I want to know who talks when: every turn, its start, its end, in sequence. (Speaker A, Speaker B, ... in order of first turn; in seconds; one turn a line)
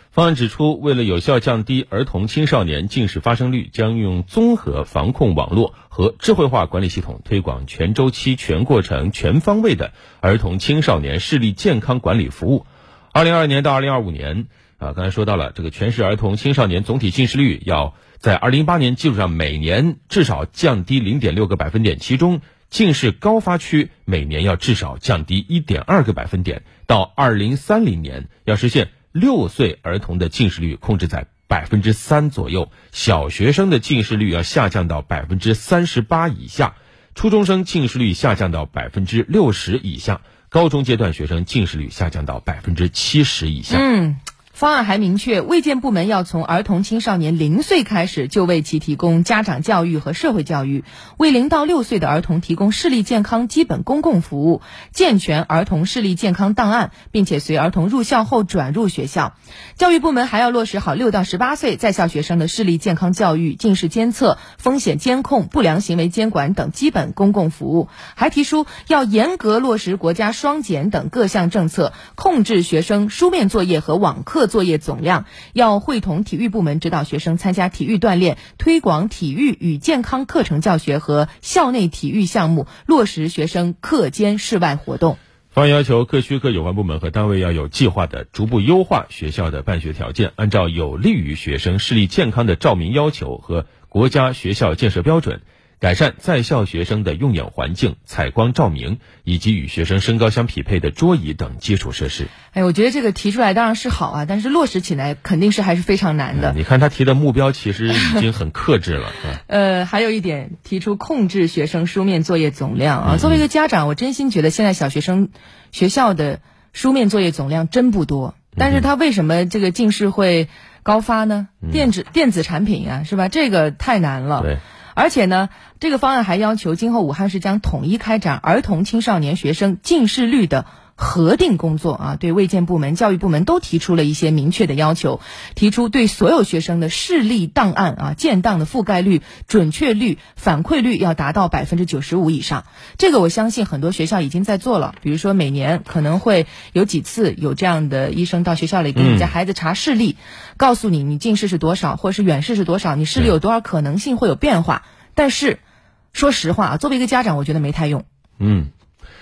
Speaker A: 0.1-43.8
Speaker B: 43.7-85.2
Speaker A: 85.5-102.3
Speaker B: 102.5-106.5
Speaker A: 106.3-109.4
Speaker B: 109.5-155.6
Speaker A: 113.0-113.4
Speaker A: 118.6-118.8
Speaker A: 121.6-121.9
Speaker A: 148.9-149.3
Speaker B: 156.1-158.0
Speaker A: 158.4-158.7